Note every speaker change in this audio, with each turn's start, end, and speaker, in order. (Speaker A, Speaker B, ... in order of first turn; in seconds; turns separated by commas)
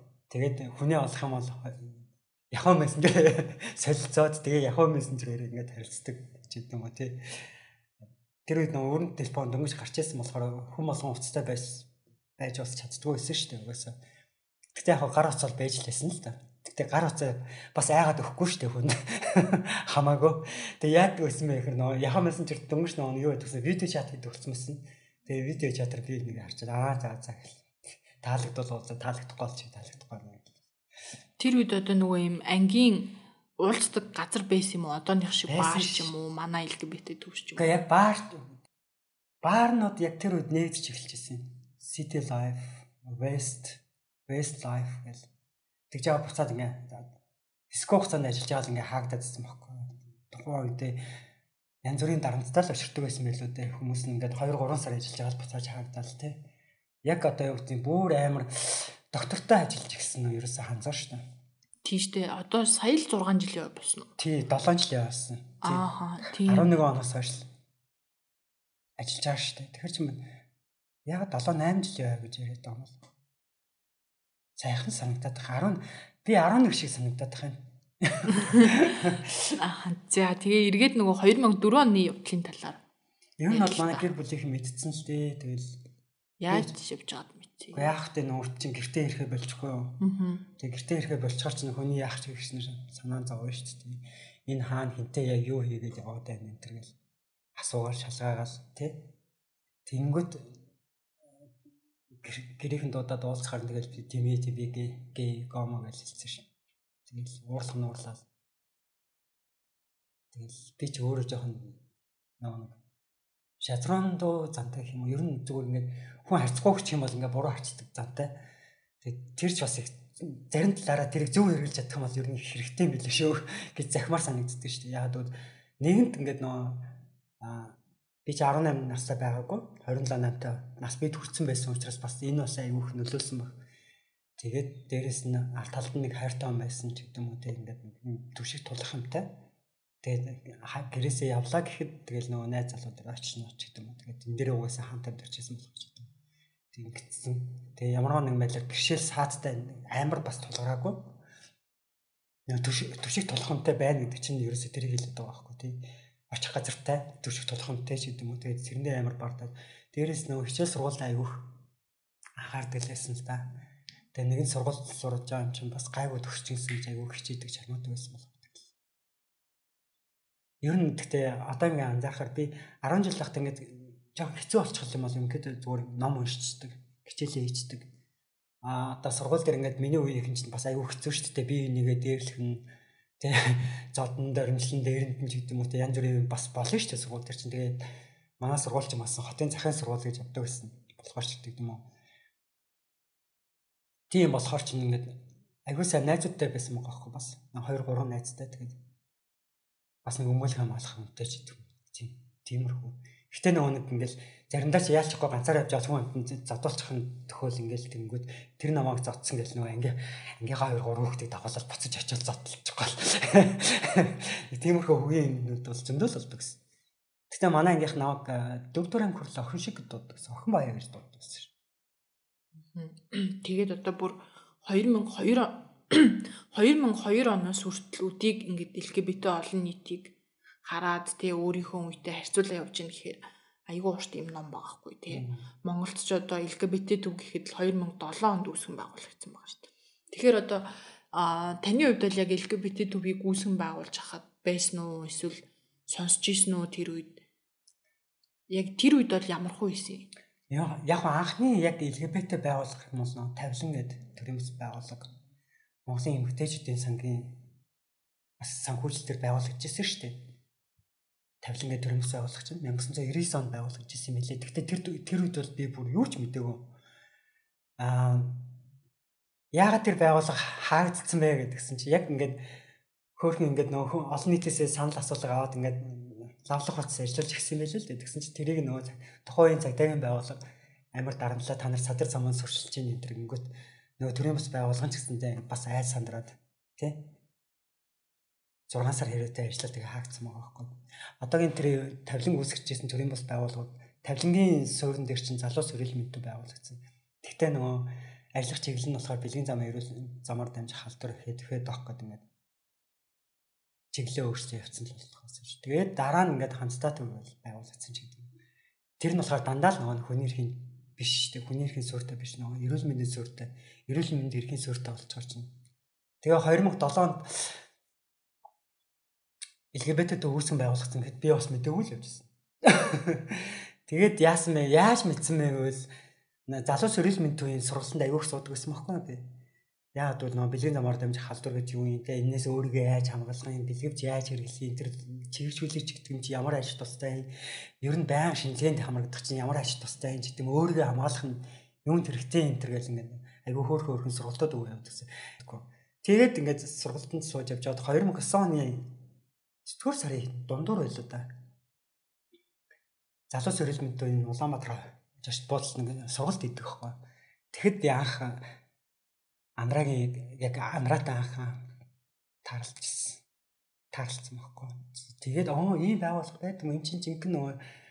Speaker A: 0.3-7.2, Speaker A: 8.5-14.0, Speaker A: 14.7-27.6, Speaker A: 28.2-30.6, Speaker B: 31.4-37.8, Speaker A: 35.5-36.1, Speaker A: 37.6-38.4, Speaker A: 39.4-45.3, Speaker A: 45.9-47.1, Speaker A: 47.7-51.0, Speaker A: 51.8-56.4, Speaker A: 57.0-61.2, Speaker B: 61.8-64.1, Speaker A: 64.2-65.9, Speaker B: 65.6-66.8, Speaker A: 66.4-67.5, Speaker A: 69.0-70.3, Speaker A: 71.1-73.0, Speaker A: 74.6-79.5, Speaker B: 78.3-79.0, Speaker B: 79.5-82.8, Speaker A: 83.4-85.8, Speaker B: 83.5-84.1, Speaker B: 86.4-87.9, Speaker A: 87.7-90.0, Speaker B: 90.0-90.5, Speaker A: 90.6-97.0, Speaker A: 97.5-99.1, Speaker A: 99.9-100.5, Speaker A: 102.1-106.5, Speaker A: 107.1-108.2, Speaker A: 110.3-111.8, Speaker A: 112.4-112.8, Speaker A: 113.6-118.4, Speaker A: 119.0-133.6, Speaker A: 134.4-139.3, Speaker A: 140.0-146.1, Speaker A: 146.7-151.2, Speaker A: 152.5-161.4, Speaker A: 162.4-163.5, Speaker A: 164.1-168.7, Speaker A: 170.6-177.9, Speaker A: 178.6-182.7, Speaker A: 183.2-187.8, Speaker A: 188.4-191.9, Speaker A: 194.1-198.8, Speaker A: 200.1-216.6, Speaker A: 217.3-221.5, Speaker B: 222.7-230.1, Speaker B: 230.7-247.2, Speaker A: 235.1-235.4, Speaker B: 248.5-250.1, Speaker A: 250.5-255.1, Speaker A: 255.9-257.5, Speaker A: 258.4-260.2, Speaker A: 261.4-266.7, Speaker A: 267.8-268.5, Speaker A: 269.5-272.4, Speaker A: 273.2-280.4, Speaker A: 280.9-287.1, Speaker A: 288.7-302.2, Speaker A: 303.9-308.3, Speaker A: 309.0-315.5, Speaker A: 316.2-317.6, Speaker A: 319.7-325.9, Speaker A: 326.5-329.3, Speaker A: 329.9-348.9, Speaker A: 349.6-351.3, Speaker A: 353.3-357.0, Speaker A: 357.5-358.4, Speaker A: 359.6-361.6, Speaker A: 362.4-363.2, Speaker A: 363.9-367.6